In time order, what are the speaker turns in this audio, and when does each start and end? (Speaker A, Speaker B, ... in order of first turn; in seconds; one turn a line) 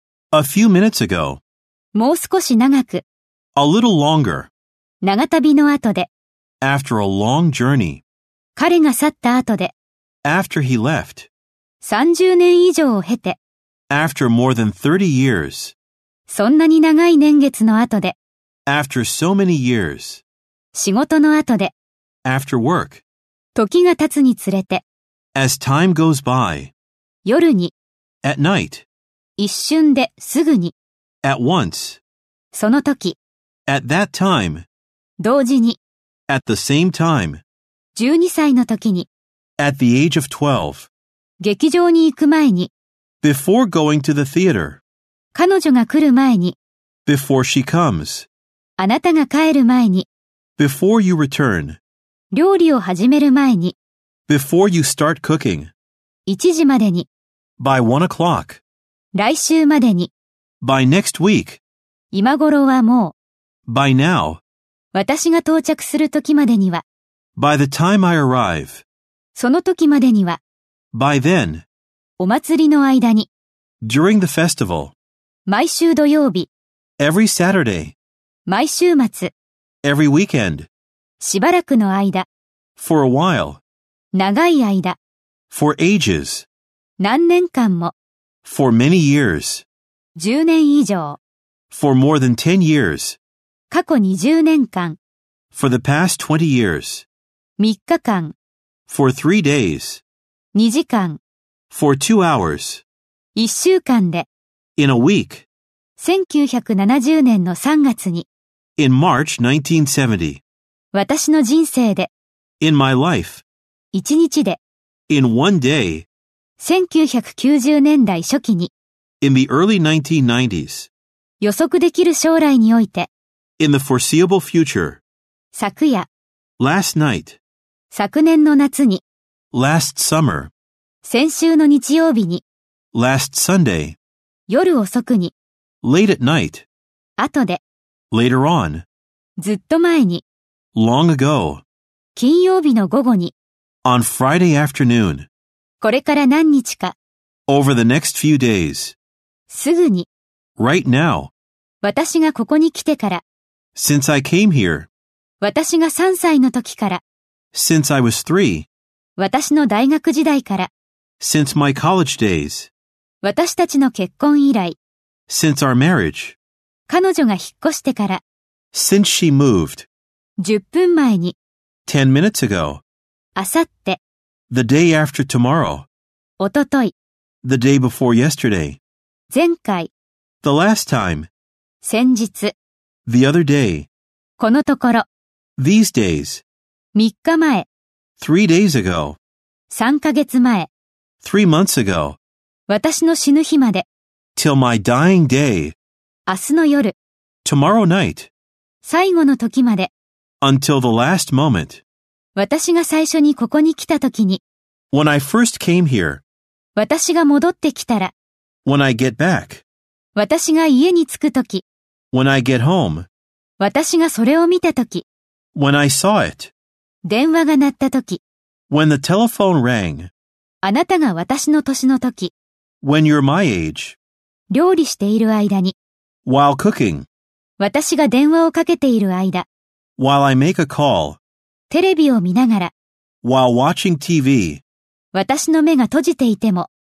Speaker A: 0.3-1.4
Speaker B: 1.9-3.0
Speaker A: 3.5-4.5
Speaker B: 5.0-6.1
Speaker A: 6.6-8.0
Speaker B: 8.6-9.7
Speaker A: 10.2-11.3
Speaker B: 11.8-13.4
Speaker A: 13.9-15.7
Speaker B: 16.3-18.1
Speaker A: 18.6-20.2
Speaker B: 20.7-21.7
Speaker A: 22.2-23.0
Speaker B: 23.5-24.8
Speaker A: 25.3-26.7
Speaker B: 27.2-27.7
Speaker A: 28.2-28.9
Speaker B: 29.4-30.7
Speaker A: 31.2-32.0
Speaker B: 32.5-33.2
Speaker A: 33.7-34.6
Speaker B: 35.2-35.8
Speaker A: 36.3-37.4
Speaker B: 37.9-39.1
Speaker A: 39.6-40.9
Speaker B: 41.4-42.7
Speaker A: 43.2-44.8
Speaker B: 45.3-46.5
Speaker A: 47.0-48.3
Speaker B: 48.8-50.1
Speaker A: 50.6-51.8
Speaker B: 52.3-53.8
Speaker A: 54.3-55.7
Speaker B: 56.3-57.1
Speaker A: 57.6-58.6
Speaker B: 59.1-60.1
Speaker A: 60.6-61.6
Speaker B: 62.1-63.1
Speaker A: 63.6-64.4
Speaker B: 64.9-66.8
Speaker A: 67.3-68.8
Speaker B: 69.3-70.4
Speaker A: 70.9-71.6
Speaker B: 72.2-73.3
Speaker A: 73.8-74.9
Speaker B: 75.5-76.5
Speaker A: 77.0-77.9
Speaker B: 78.5-79.3
Speaker A: 79.8-80.7
Speaker B: 81.2-82.2
Speaker A: 82.8-83.6
Speaker B: 84.1-85.0
Speaker A: 85.5-86.5
Speaker B: 87.0-87.9
Speaker A: 88.4-89.6
Speaker B: 90.2-91.2
Speaker A: 91.7-93.2
Speaker B: 93.7-95.0
Speaker A: 95.5-97.0
Speaker B: 97.6-98.3
Speaker A: 98.9-100.0
Speaker B: 100.5-101.2
Speaker A: 101.7-102.8
Speaker B: 103.3-104.3
Speaker A: 104.8-105.5
Speaker B: 106.0-108.3
Speaker A: 108.8-110.4
Speaker B: 110.9-112.1
Speaker A: 112.6-113.4
Speaker B: 113.9-114.6
Speaker A: 115.1-116.1
Speaker B: 116.6-118.7
Speaker A: 119.2-120.9
Speaker B: 121.4-123.1
Speaker A: 123.6-125.0
Speaker B: 125.5-126.1
Speaker A: 126.6-127.4
Speaker B: 127.9-129.0
Speaker A: 129.5-130.5
Speaker B: 131.0-132.4
Speaker A: 132.9-134.0
Speaker B: 134.5-135.3
Speaker A: 135.8-136.7
Speaker B: 137.2-137.6
Speaker A: 138.1-138.8
Speaker B: 139.4-140.2
Speaker A: 140.7-141.6
Speaker B: 142.1-143.3
Speaker A: 143.8-145.3
Speaker B: 145.8-146.9
Speaker A: 147.5-148.9
Speaker B: 149.5-150.1
Speaker A: 150.6-151.3
Speaker B: 151.8-153.2
Speaker A: 153.7-154.9
Speaker B: 155.4-157.0
Speaker A: 157.5-158.7
Speaker B: 159.2-160.7
Speaker A: 161.2-162.7
Speaker B: 163.2-164.8
Speaker A: 165.3-166.4
Speaker B: 166.9-168.2
Speaker A: 168.7-169.9
Speaker B: 170.4-171.3
Speaker A: 171.8-172.8
Speaker B: 173.3-174.0
Speaker A: 174.5-175.9
Speaker B: 176.4-176.9
Speaker A: 177.4-178.8
Speaker B: 179.3-179.9
Speaker A: 180.4-181.3
Speaker B: 181.8-182.5
Speaker A: 183.1-183.9
Speaker B: 184.4-185.1
Speaker A: 185.6-186.4
Speaker B: 186.9-187.7
Speaker A: 188.2-189.2
Speaker B: 189.7-190.7
Speaker A: 191.2-192.2
Speaker B: 192.7-193.8
Speaker A: 194.3-195.8
Speaker B: 196.3-196.9
Speaker A: 197.4-198.3
Speaker B: 198.8-199.9
Speaker A: 200.4-201.8
Speaker B: 202.3-204.4
Speaker A: 204.9-206.2
Speaker B: 206.8-208.1
Speaker A: 208.6-209.6
Speaker B: 210.2-211.6
Speaker A: 212.1-213.1
Speaker B: 213.6-215.0
Speaker A: 215.5-216.5
Speaker B: 217.1-218.2
Speaker A: 218.7-220.1
Speaker B: 220.6-222.3
Speaker A: 222.8-224.0
Speaker B: 224.5-225.8
Speaker A: 226.2-227.1
Speaker B: 227.6-229.5
Speaker A: 230.0-231.2
Speaker B: 231.7-232.7
Speaker A: 233.2-234.6
Speaker B: 235.1-236.7